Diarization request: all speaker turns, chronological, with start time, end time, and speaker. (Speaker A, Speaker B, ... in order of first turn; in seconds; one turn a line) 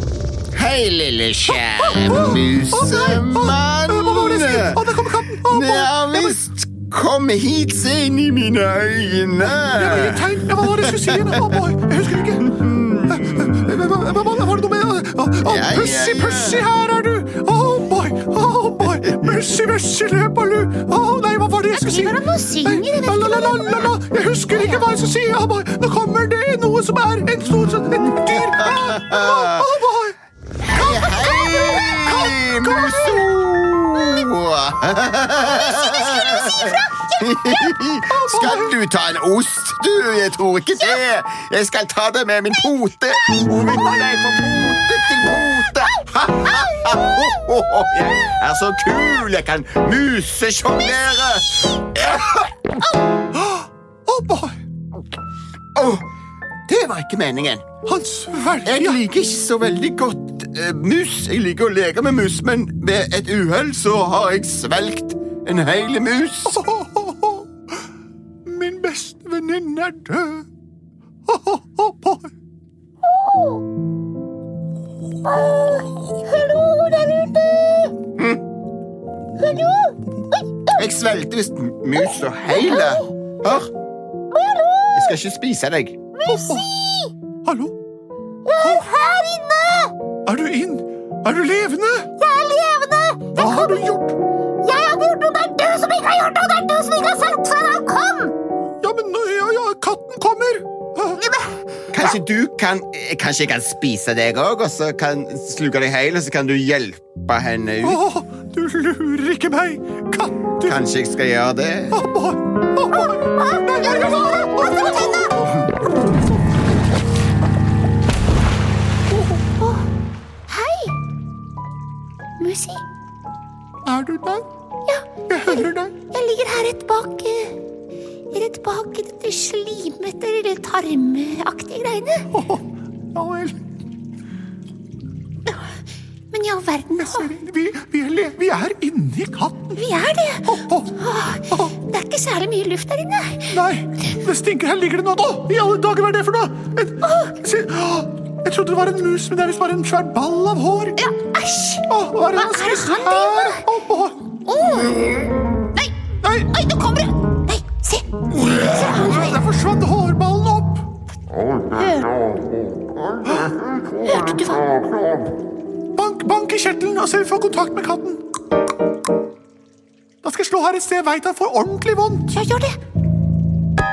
Speaker A: 0.5-11.6
Speaker B: 1.8-6.4
Speaker B: 9.6-12.6
Speaker A: 12.4-13.7
Speaker B: 13.1-30.2
Speaker A: 15.4-16.7
Speaker C: 21.7-24.0
Speaker C: 24.5-24.9
Speaker A: 28.1-29.7
Speaker A: 30.7-52.5
Speaker B: 30.7-32.5
Speaker C: 31.1-31.5
Speaker C: 32.8-33.2
Speaker C: 35.4-37.7
Speaker B: 38.1-38.8
Speaker B: 53.3-54.6
Speaker A: 55.8-56.0
Speaker A: 56.7-57.6
Speaker B: 57.9-59.0
Speaker A: 58.6-66.6
Speaker B: 66.5-67.5
Speaker B: 68.5-70.5
Speaker B: 71.3-72.3
Speaker C: 73.0-73.6
Speaker C: 75.3-78.0
Speaker A: 78.2-78.4
Speaker C: 79.4-80.7
Speaker A: 80.8-83.7
Speaker C: 82.5-83.0
Speaker C: 84.3-85.2
Speaker A: 85.0-86.0
Speaker C: 86.2-87.1
Speaker B: 86.3-86.7
Speaker B: 87.4-87.8
Speaker C: 88.5-89.9
Speaker B: 88.6-88.9
Speaker B: 90.3-92.1
Speaker C: 92.2-93.9
Speaker B: 93.3-94.2
Speaker C: 94.6-98.3
Speaker B: 98.8-101.2
Speaker C: 101.2-101.6
Speaker A: 101.9-108.0
Speaker B: 107.8-110.8
Speaker A: 110.6-112.0
Speaker B: 111.9-115.5
Speaker C: 113.0-115.4
Speaker C: 120.5-120.9
Speaker C: 122.4-122.8
Speaker B: 123.9-124.5
Speaker C: 124.9-127.6
Speaker B: 125.3-126.0
Speaker C: 128.3-132.3
Speaker B: 132.3-133.6
Speaker C: 136.3-137.3
Speaker B: 137.0-139.8
Speaker C: 139.8-143.6
Speaker B: 140.4-141.7
Speaker B: 143.5-151.0
Speaker C: 147.0-147.3
Speaker C: 151.0-153.7
Speaker B: 151.9-154.3
Speaker C: 154.5-155.1
Speaker B: 156.2-156.5
Speaker C: 156.5-159.4
Speaker B: 158.7-160.9
Speaker C: 161.7-162.3
Speaker B: 163.2-163.5
Speaker C: 164.0-164.8
Speaker B: 165.9-168.2
Speaker B: 170.2-172.4
Speaker C: 172.3-172.8